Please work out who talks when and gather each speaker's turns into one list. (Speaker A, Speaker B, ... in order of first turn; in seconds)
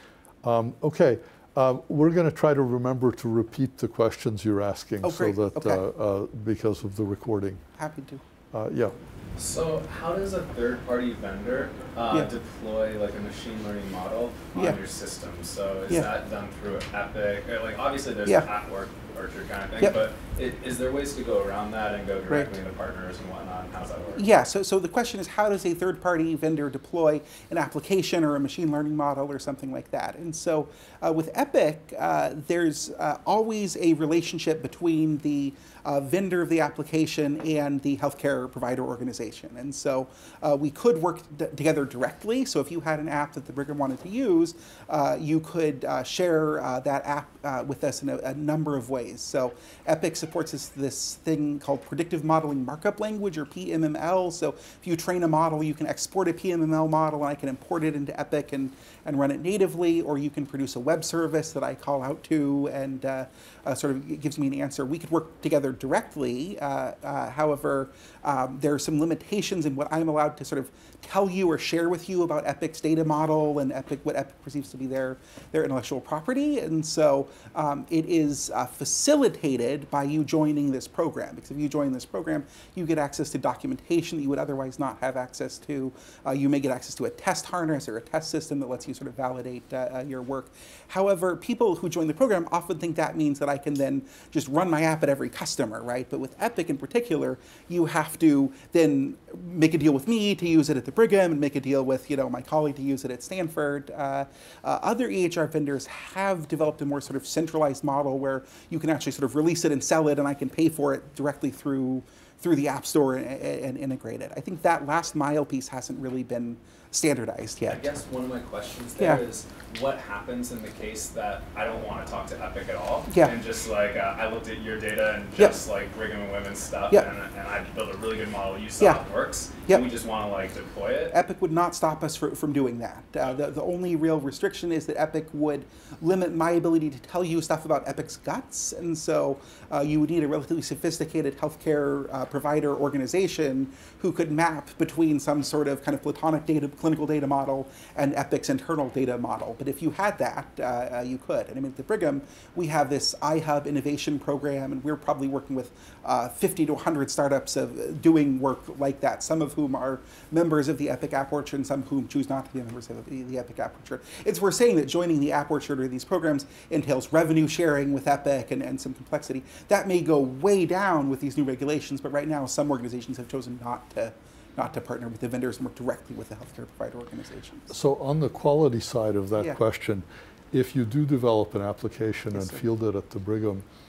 Speaker A: 0.4-7.6, 8.5-8.9, 177.7-183.6
Speaker B: 5.0-5.8, 7.8-8.2, 22.3-22.5, 24.1-117.8, 123.1-123.3, 131.1-177.7, 182.3-182.6
Speaker C: 9.4-24.3, 117.7-131.1